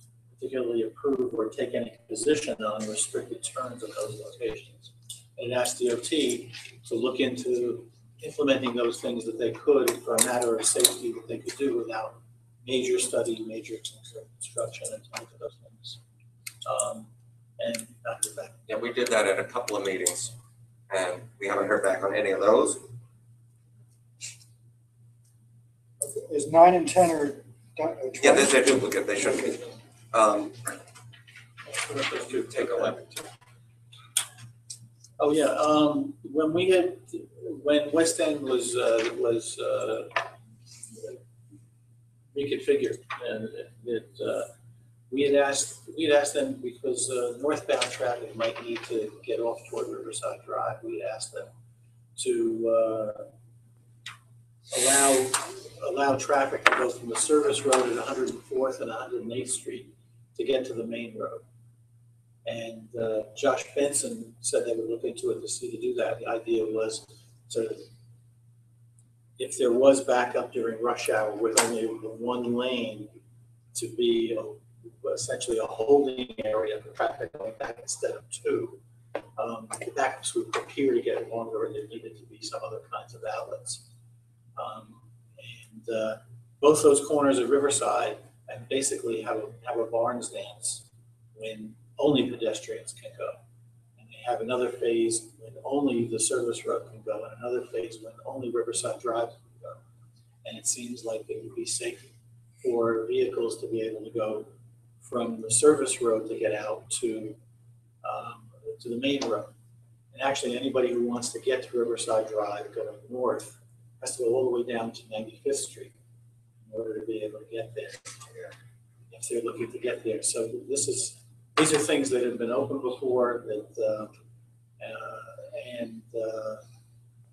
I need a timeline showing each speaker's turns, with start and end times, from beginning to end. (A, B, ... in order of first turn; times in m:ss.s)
0:00.4-0:16.0 A
0:16.6-0:18.6 A
0:18.7-0:20.3 B
0:20.9-0:22.8 B
0:26.0-0:28.8 C
0:28.2-0:30.6 B
0:31.7-0:33.2 A
0:32.2-0:33.1 B
0:35.2-0:40.1 A
0:42.3-0:44.5 A
0:45.1-0:51.5 A
0:52.2-0:53.2 A
0:54.7-1:01.4 A
1:02.4-1:07.9 A
1:09.4-1:13.1 A
1:13.7-1:18.8 A
1:19.4-1:23.8 A
1:24.6-1:33.4 A
1:34.0-1:39.8 A
1:40.4-1:42.1 A
1:42.6-1:44.5 A
1:45.0-1:47.4 A
1:48.0-1:49.5 A
1:50.1-1:55.9 A
1:56.6-1:58.5 A
1:59.1-2:04.1 A
2:04.8-2:06.6 A